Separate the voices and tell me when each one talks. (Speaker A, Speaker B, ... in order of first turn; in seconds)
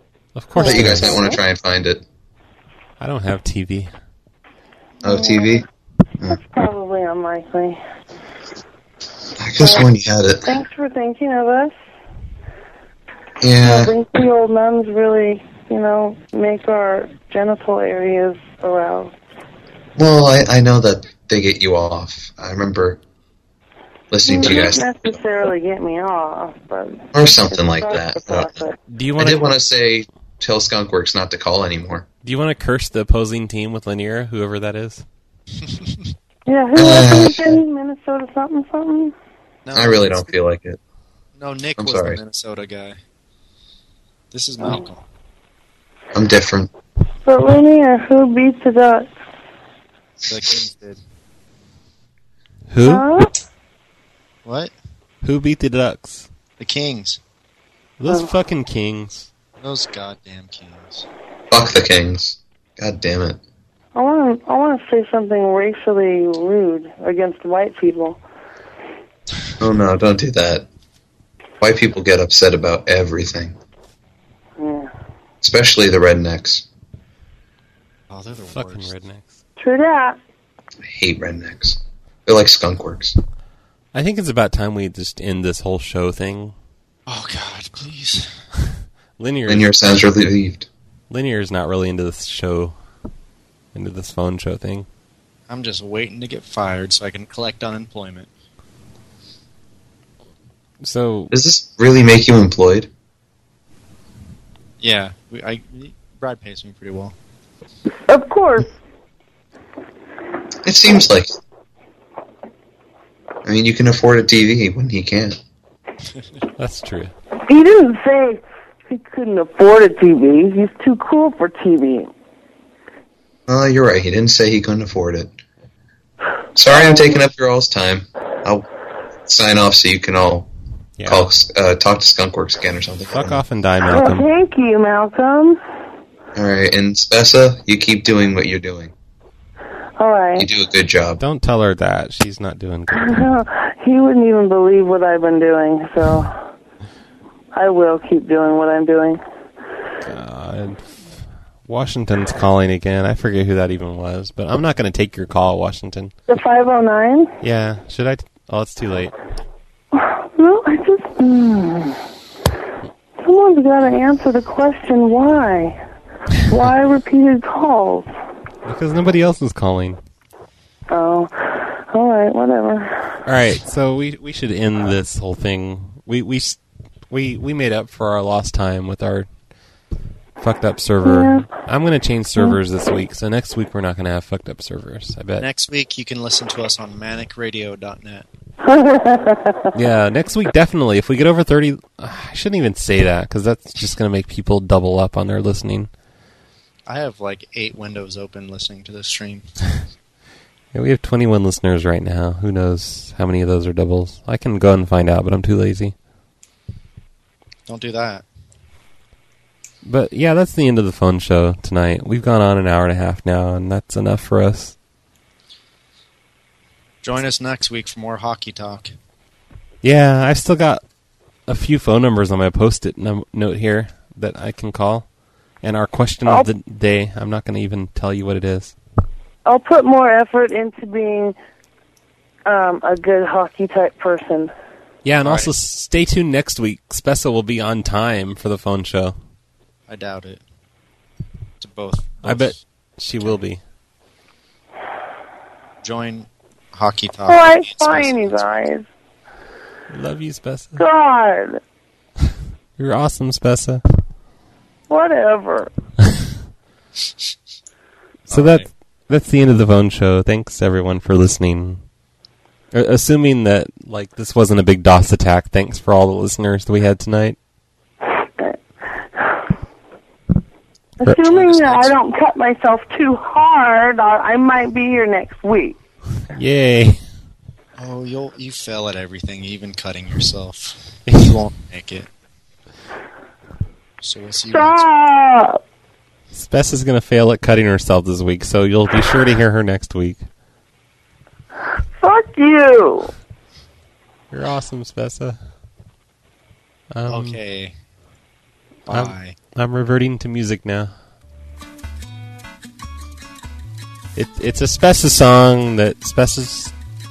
Speaker A: 0.3-1.2, 3.0-3.9, 28.9-29.6, 32.2-35.0, 52.7-53.0, 55.2-56.3, 58.0-59.3, 78.5-79.3, 83.9-86.5, 89.2-90.0, 91.1-92.8, 93.7-94.9, 100.8-101.3, 116.6-117.1, 131.0-131.3, 133.1-134.3, 141.2-143.2, 150.1-156.1, 157.4-159.1, 168.7-170.0, 173.2-176.6, 177.1-179.3, 180.4-185.5, 189.8-195.9, 200.7-205.9, 209.8-214.8, 219.8-220.8, 221.5-225.1, 225.6-228.8, 235.1-239.2, 242.2-243.6, 249.9-250.8, 252.8-253.8, 258.3-261.8, 262.7-267.4, 271.1-271.9, 276.3-277.0, 281.1-281.4, 286.3-290.2, 294.3-295.4, 296.9-297.4, 298.9-300.9, 304.2-306.7
Speaker B: 0.6-1.4, 5.0-5.7, 6.3-7.8, 9.6-9.9, 10.4-11.7, 13.6-19.1, 24.2-28.8, 36.5-39.1, 47.2-49.1, 52.8-53.3, 64.0-68.2, 74.6-74.9, 79.6-80.2, 108.1-108.7, 117.5-122.1, 126.7-127.2, 133.8-135.6, 140.0-140.5, 143.0-146.3, 147.5-149.2, 156.3-157.3, 159.9-162.0, 163.2-165.8, 166.5-168.1, 170.9-173.0, 181.0-181.5, 188.7-189.7, 229.5-231.3, 232.5-234.5, 247.3-248.8, 250.8-251.6, 254.9-255.7, 268.2-268.6, 271.0-275.8, 284.5-285.6, 292.0-293.1
Speaker C: 0.6-2.0, 5.0-5.7, 9.4-10.5, 13.4-14.0, 20.0-23.0, 24.1-25.2, 27.1-28.7, 29.2-32.1, 36.8-37.6, 39.7-40.8, 41.8-42.2, 46.1-46.7, 61.5-63.4, 69.6-70.7, 71.6-73.6, 75.4-76.7, 80.9-83.2, 89.5-90.7, 101.3-102.9, 110.7-111.3, 113.5-115.4, 123.5-125.4, 126.6-128.7, 129.2-130.5, 131.0-133.4, 136.4-138.9, 140.4-141.2
Speaker D: 39.6-40.3, 41.4-43.0, 44.3-45.0, 50.3-51.0, 54.5-54.7, 56.6-57.2, 59.6-61.1, 78.1-79.0, 87.1-88.3, 95.5-98.3, 104.8-107.2, 185.4-188.3, 196.9-199.4, 207.7-208.2, 217.0-218.9, 235.2-235.5, 239.9-240.4, 241.6-242.6, 245.8-248.4, 258.3-258.7, 277.8-282.1, 284.0-284.9, 297.1-297.7, 298.9-299.4